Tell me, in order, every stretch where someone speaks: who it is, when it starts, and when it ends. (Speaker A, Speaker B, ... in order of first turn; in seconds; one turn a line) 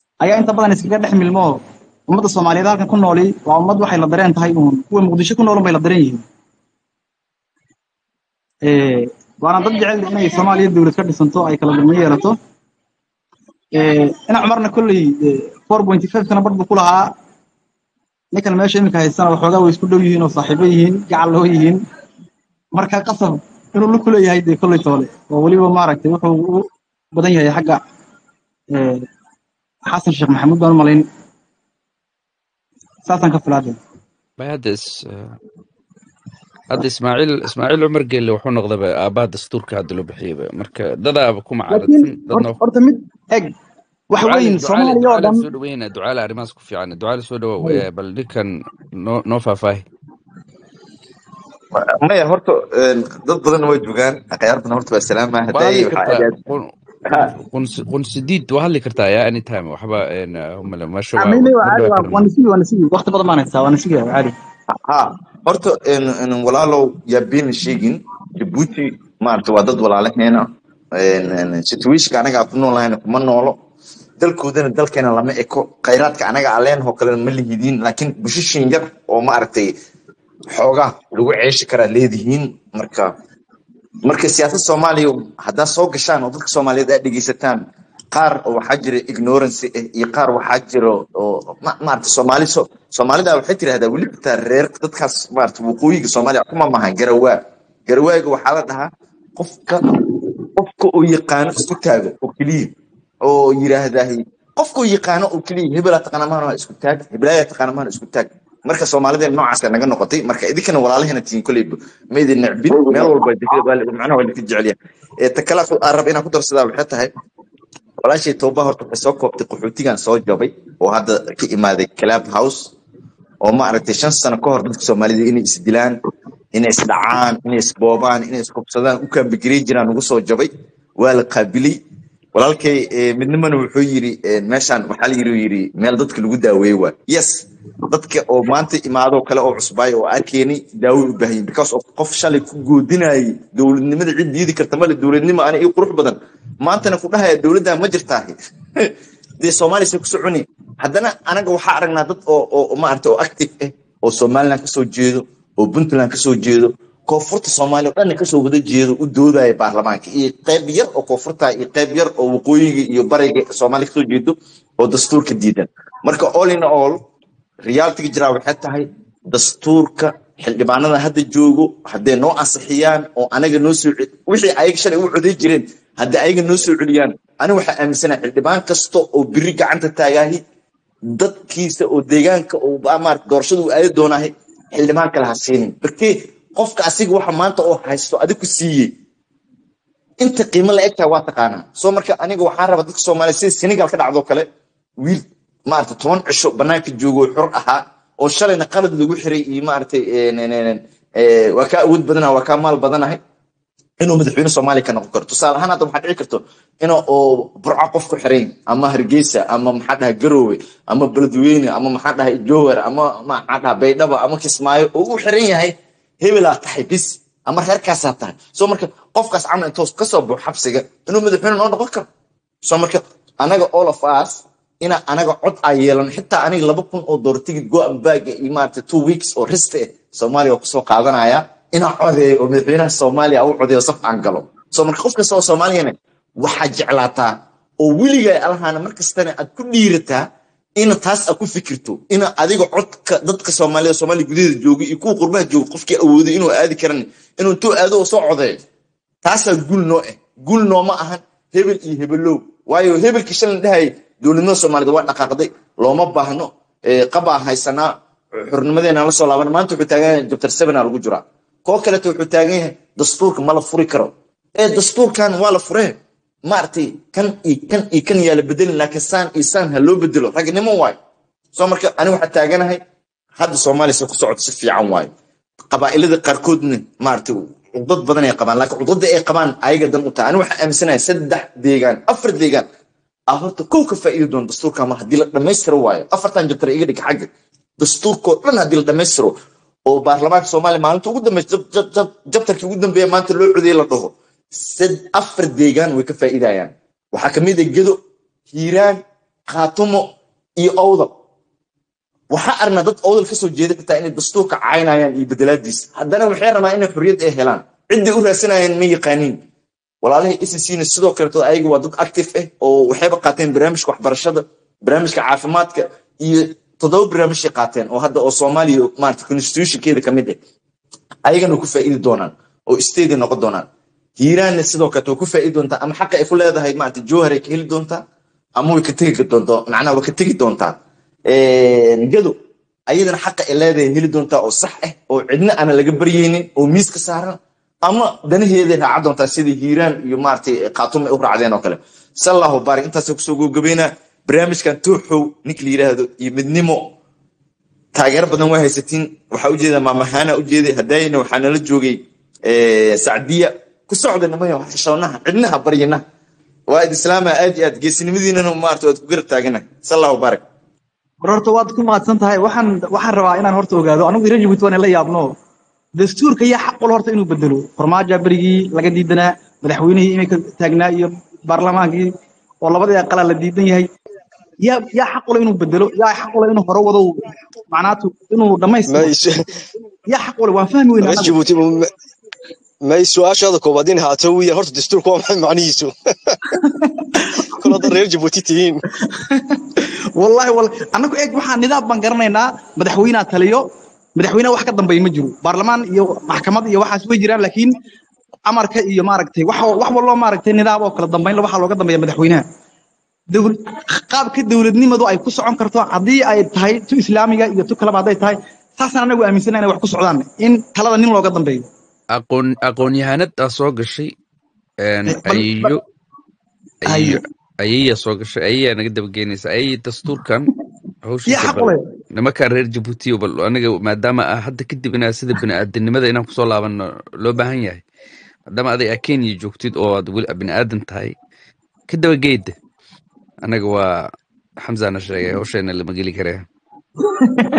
Speaker A: 0.2-6.2
Speaker A: 8.7-12.4
Speaker A: 13.8-17.1
Speaker A: 18.3-21.8
Speaker A: 22.7-27.8
Speaker A: 28.7-29.1
Speaker A: 29.9-31.0
Speaker A: 33.1-33.8
Speaker B: 34.4-35.4
Speaker B: 36.7-42.6
Speaker A: 41.7-43.5
Speaker A: 44.1-45.5
Speaker B: 44.2-49.9
Speaker C: 51.8-56.4
Speaker B: 55.5-62.3
Speaker A: 61.2-64.3
Speaker C: 64.7-73.6
Speaker C: 74.2-79.8
Speaker C: 80.5-83.1
Speaker C: 84.0-99.9
Speaker C: 100.6-102.7
Speaker C: 103.2-117.1
Speaker C: 118.0-122.7
Speaker C: 123.4-126.0
Speaker C: 126.5-131.8
Speaker C: 132.3-167.0
Speaker C: 167.6-180.4
Speaker C: 181.1-188.9
Speaker C: 190.2-194.5
Speaker C: 195.0-203.2
Speaker C: 204.0-222.1
Speaker C: 222.7-240.2
Speaker C: 240.8-248.6
Speaker C: 249.2-271.0
Speaker C: 271.5-272.8
Speaker C: 273.4-275.1
Speaker C: 275.7-282.7
Speaker C: 283.3-289.3
Speaker C: 289.9-298.0
Speaker C: 298.5-301.1
Speaker C: 302.3-309.4
Speaker C: 310.0-320.4
Speaker C: 321.2-323.7
Speaker C: 324.2-328.0
Speaker C: 328.6-330.8
Speaker C: 331.3-332.4
Speaker C: 332.9-346.9
Speaker C: 347.9-356.0
Speaker C: 356.7-360.4
Speaker A: 361.2-365.3
Speaker A: 366.0-372.1
Speaker A: 372.6-373.9
Speaker A: 374.6-377.2
Speaker A: 377.7-379.1
Speaker D: 378.9-379.5
Speaker A: 380.1-381.3
Speaker D: 381.0-381.9
Speaker D: 382.9-386.4
Speaker D: 387.6-388.8
Speaker A: 389.3-393.6
Speaker A: 394.2-397.7
Speaker A: 398.5-402.4
Speaker A: 403.3-411.7
Speaker B: 412.1-414.1
Speaker B: 414.8-415.8
Speaker A: 415.1-415.8
Speaker A: 416.9-417.2
Speaker B: 416.9-420.5
Speaker B: 421.0-427.8
Speaker A: 421.3-421.9
Speaker B: 428.5-431.2
Speaker B: 431.9-432.5
Speaker B: 433.4-433.8
Speaker B: 434.6-436.4